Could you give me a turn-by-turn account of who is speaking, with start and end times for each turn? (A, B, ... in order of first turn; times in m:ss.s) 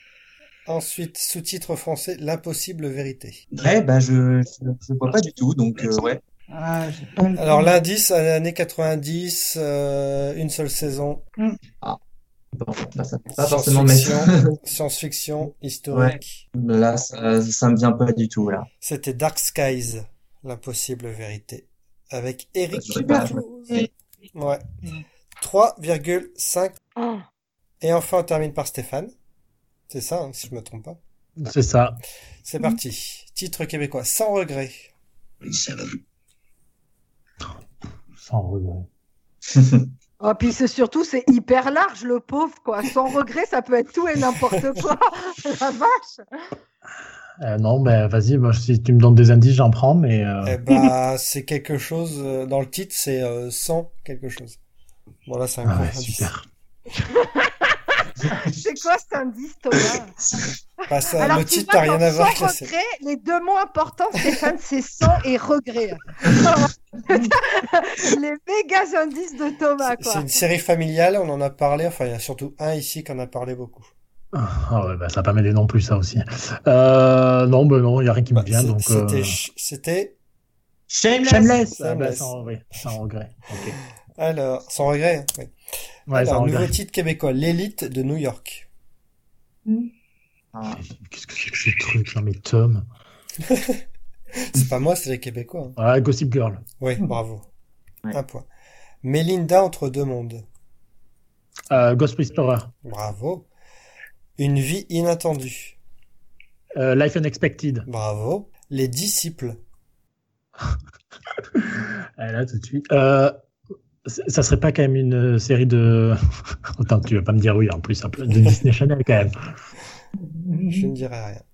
0:00.6-0:03.4 A
0:03.5-0:06.2 B
0:06.5-0:07.7 C
0:07.4-0:11.2 A
0:12.5-0:14.6 B
0:13.4-0:16.4 A
0:15.9-0:18.7 B
0:18.8-0:24.6 A
0:22.7-0:23.4 B
0:23.0-0:23.9 C
0:25.4-0:26.8 A
0:27.0-0:27.2 D
0:27.8-0:29.1 A
0:29.9-0:31.0 A
0:31.4-0:32.0 E
0:32.4-0:34.9 A
0:35.4-0:35.9 B
0:38.2-0:38.9 E
0:39.5-0:39.9 B
0:40.2-0:46.2 D
0:47.4-0:50.7 E
0:50.4-0:54.6 A
0:55.2-0:56.3 A
0:55.6-0:56.4 E
0:57.1-1:00.1 D
0:58.2-0:58.7 B
0:59.9-1:00.5 B
1:00.9-1:02.7 A
1:01.2-1:10.2 D
1:09.8-1:13.9 A
1:14.3-1:19.3 E
1:18.3-1:20.1 A
1:20.9-1:21.6 B
1:21.2-1:23.8 E
1:21.6-1:22.3 A
1:24.2-1:25.5 A
1:26.1-1:26.7 E
1:26.1-1:28.6 A
1:30.5-1:30.8 B
1:30.7-1:32.8 E
1:33.4-1:33.8 A
1:34.3-1:35.8 A
1:35.8-1:36.6 E
1:36.8-1:37.4 A
1:38.1-1:38.5 A
1:39.0-1:40.4 A
1:41.7-1:42.7 E
1:42.8-1:43.5 A
1:44.4-1:45.8 A
1:46.8-1:47.8 E
1:47.9-1:49.6 A
1:51.5-1:53.4 E
1:54.0-1:56.2 E
1:56.8-1:59.4 E
2:00.2-2:00.9 C
2:00.7-2:01.4 A